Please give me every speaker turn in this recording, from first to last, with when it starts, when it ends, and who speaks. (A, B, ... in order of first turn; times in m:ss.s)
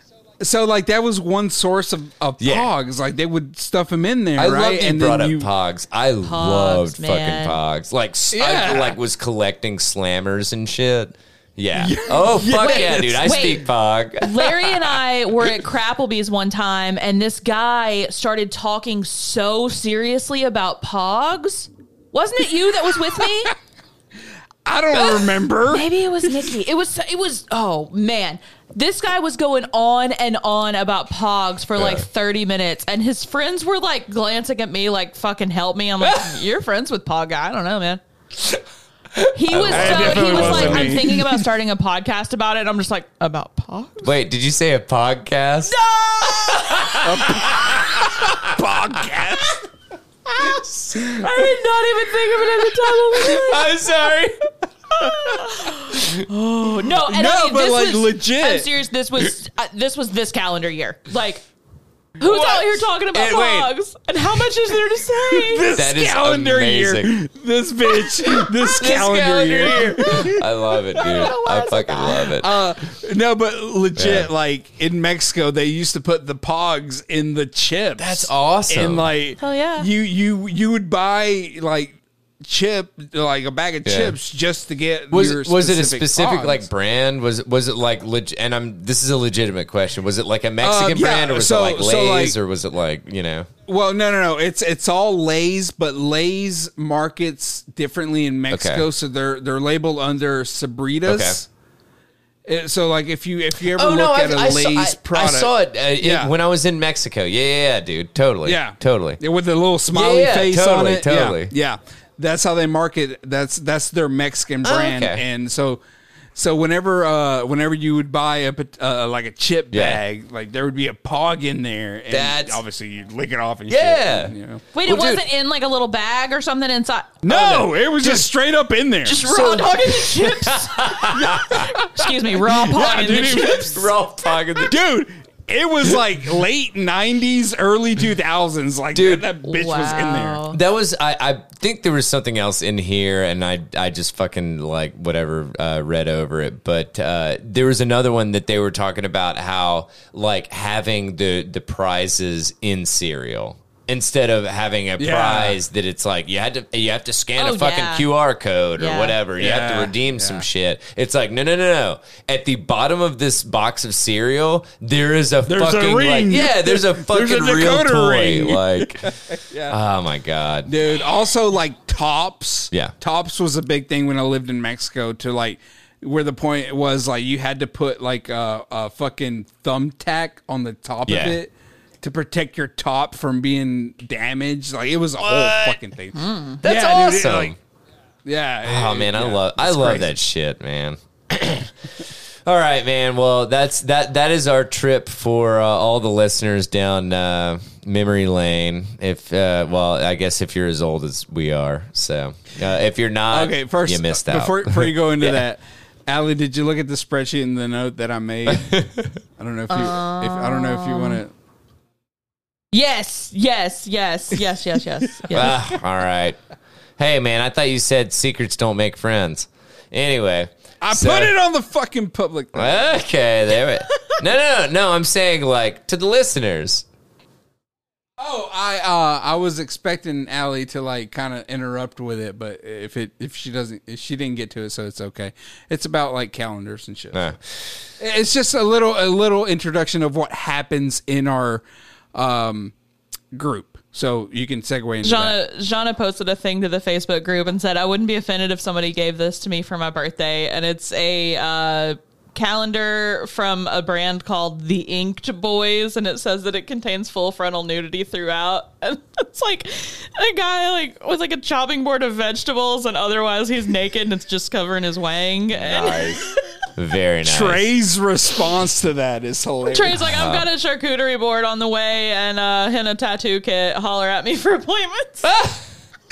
0:00.4-0:05.5 A
0:02.4-0:02.7 B
0:04.4-0:15.0 B
0:06.2-0:07.6 C
0:08.3-0:09.0 A
0:11.7-0:13.4 A
0:12.6-0:23.5 C
0:24.6-0:26.5 A
0:24.9-0:38.0 C
0:31.8-0:32.0 B
0:39.2-0:41.0 B
0:39.3-0:44.1 C
0:39.7-0:41.4 A
0:44.0-0:48.6 B
0:45.6-0:47.0 C
0:47.0-0:49.6 A
0:50.4-0:51.1 B
0:50.4-0:53.8 C
0:53.1-0:54.4 B
0:54.9-1:01.4 C
0:56.6-0:58.7 A
1:02.2-1:05.7 C
1:02.2-1:02.8 A
1:03.1-1:03.7 B
1:05.3-1:10.5 A
1:05.7-1:07.2 B
1:08.6-1:08.9 C
1:08.8-1:12.5 B
1:10.0-1:12.4 C
1:12.4-1:26.7 A
1:14.0-1:14.3 B
1:18.0-1:19.1 B
1:19.4-1:19.9 C
1:23.8-1:24.2 B
1:25.1-1:33.5 B
1:30.6-1:32.4 A
1:33.7-1:41.5 A
1:38.5-1:38.9 B
1:41.0-1:41.4 B
1:42.4-1:46.3 A
1:43.7-1:49.2 B
1:48.4-1:55.8 A
1:49.9-1:51.5 B
1:54.6-1:55.2 B
1:56.3-2:04.6 A
1:59.7-2:00.0 B
2:02.1-2:02.6 B
2:03.7-2:05.2 B
2:04.7-2:08.2 C
2:07.2-2:09.2 A
2:07.3-2:08.2 B
2:09.0-2:13.7 C
2:09.1-2:11.7 B
2:12.4-2:13.9 A
2:12.8-2:14.8 B
2:14.7-2:20.4 A
2:18.9-2:19.3 B
2:19.4-2:20.6 C
2:20.5-2:49.1 B
2:35.0-2:35.6 A
2:37.4-2:38.1 C
2:38.8-2:39.2 C
2:39.4-2:40.4 A
2:45.4-2:49.8 A
2:49.7-2:50.7 B
2:50.6-3:01.5 A
3:01.0-3:01.4 B
3:02.0-3:07.6 A
3:05.2-3:05.8 B
3:06.1-3:06.6 C
3:06.6-3:07.6 B
3:08.2-3:10.1 A
3:08.6-3:25.4 B
3:23.3-3:28.8 A
3:28.5-3:29.2 B
3:29.4-3:31.3 A
3:29.7-3:31.2 C
3:32.7-3:35.6 C
3:35.1-3:35.4 A
3:35.3-3:36.4 B
3:37.0-3:41.3 B
3:40.8-3:42.9 A
3:42.5-3:46.8 B
3:48.2-3:57.3 A
3:57.1-3:57.4 B
3:58.0-4:02.7 A
4:03.3-4:05.4 A
4:05.0-4:26.3 C
4:25.5-4:26.2 B
4:26.8-4:27.6 B
4:27.2-4:30.0 A
4:29.7-4:35.3 C
4:30.0-4:30.4 B
4:35.2-4:35.7 B